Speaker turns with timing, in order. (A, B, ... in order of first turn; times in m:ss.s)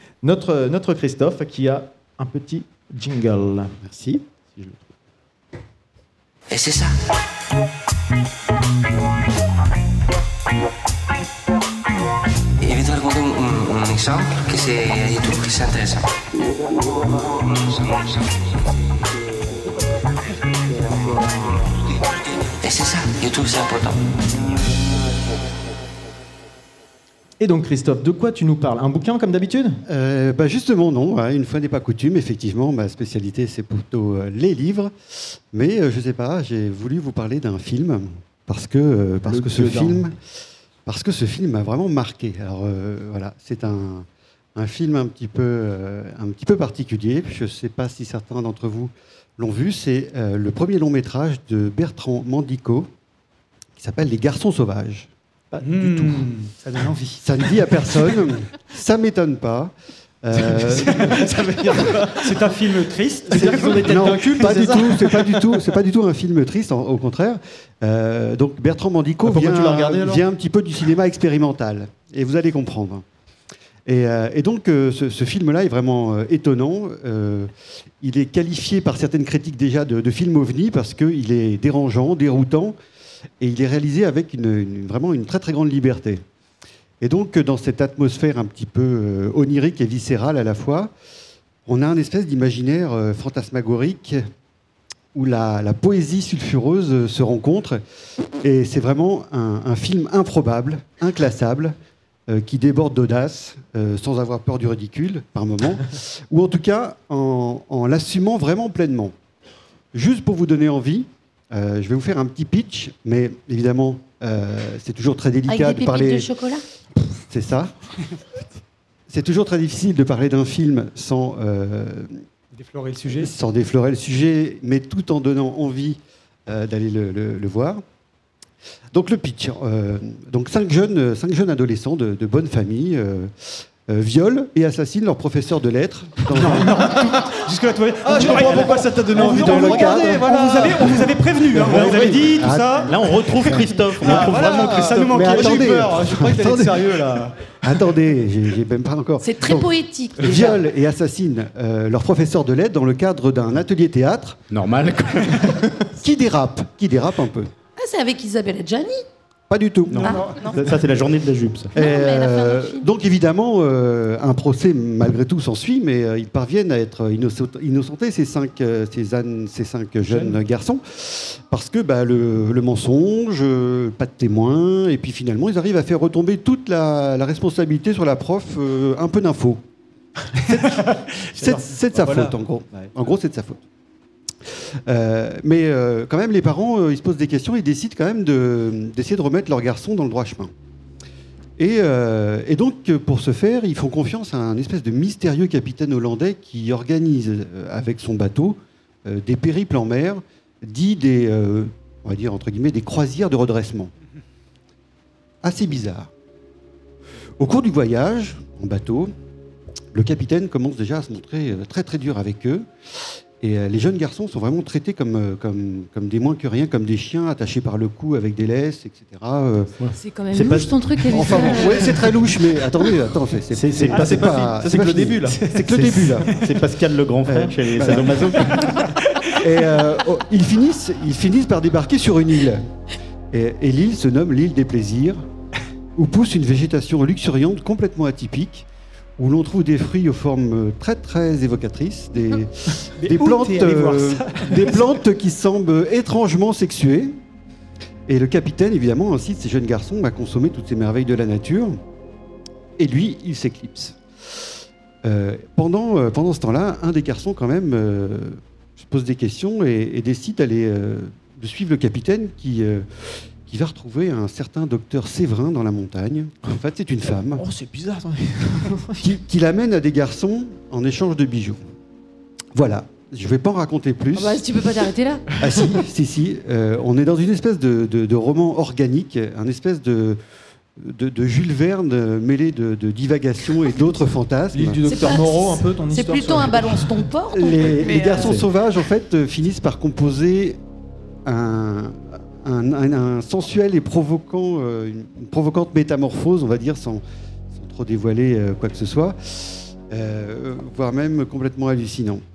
0:00.2-0:03.8 A
0:06.5-0:06.9 B
0:12.6-0:16.1 B
0:16.9-0:18.8 B
0:20.8-0:21.8 B
0:22.6-0:24.8 B
0:27.4-0:29.8 A
0:29.9-0:40.2 C
0:39.2-0:40.0 A
0:40.8-0:52.9 C
0:53.8-0:55.1 C
0:55.5-0:56.2 A
0:55.6-0:58.0 D
0:57.2-1:01.3 C
1:00.5-1:04.3 D
1:00.5-1:02.6 A
1:03.2-1:05.5 A
1:03.3-1:13.0 C
1:13.8-1:17.5 C
1:18.0-1:22.8 C
1:23.4-1:26.2 C
1:27.0-1:30.9 C
1:31.6-1:34.2 C
1:35.1-1:37.8 C
1:38.4-1:41.7 C
1:42.3-1:49.1 C
1:49.9-1:56.3 C
1:55.5-1:56.6 E
1:57.2-1:57.7 C
1:59.1-2:02.2 C
2:02.5-2:03.3 D
2:03.1-2:07.8 C
2:08.9-2:16.9 C
2:16.3-2:26.2 D
2:16.4-2:17.4 A
2:18.0-2:21.2 A
2:18.1-2:20.2 C
2:21.5-2:34.4 C
2:21.9-2:22.2 A
2:21.9-2:24.8 F
2:24.0-2:27.5 A
2:29.2-2:30.6 E
2:34.5-2:35.7 F
2:36.0-2:37.5 C
2:37.8-2:39.0 E
2:39.5-2:40.2 C
2:39.9-2:41.7 F
2:39.9-2:40.4 D
2:40.0-2:40.6 E
2:41.7-2:59.6 C
2:41.7-2:42.9 E
2:50.1-2:50.4 D
3:00.4-3:01.7 D
3:00.4-3:03.6 C
3:01.9-3:02.9 A
3:04.8-3:10.5 C
3:11.6-3:23.9 C
3:25.4-3:26.1 C
3:27.4-3:29.1 C
3:29.9-3:39.7 C
3:39.8-3:41.9 F
3:40.0-3:42.0 G
3:41.1-3:46.3 C
3:43.5-3:48.7 F
3:43.9-3:44.3 D
3:43.9-3:45.4 A
3:45.2-3:46.5 D
3:47.3-3:48.8 C
3:48.4-3:49.6 D
3:49.4-3:52.7 C
3:53.3-3:55.2 C
3:56.0-3:58.6 C
3:59.2-4:07.2 C
4:03.0-4:04.9 D
4:08.1-4:11.8 C
4:12.8-4:14.4 C
4:15.0-4:27.4 C
4:27.3-4:29.1 A
4:29.0-4:31.6 C
4:32.5-4:34.6 C
4:34.2-4:35.2 G
4:34.6-4:34.9 E
4:35.4-4:40.2 C
4:40.8-4:44.8 C
4:44.5-4:47.1 A
4:44.8-4:48.4 E
4:47.3-4:50.6 C
4:51.2-5:02.2 C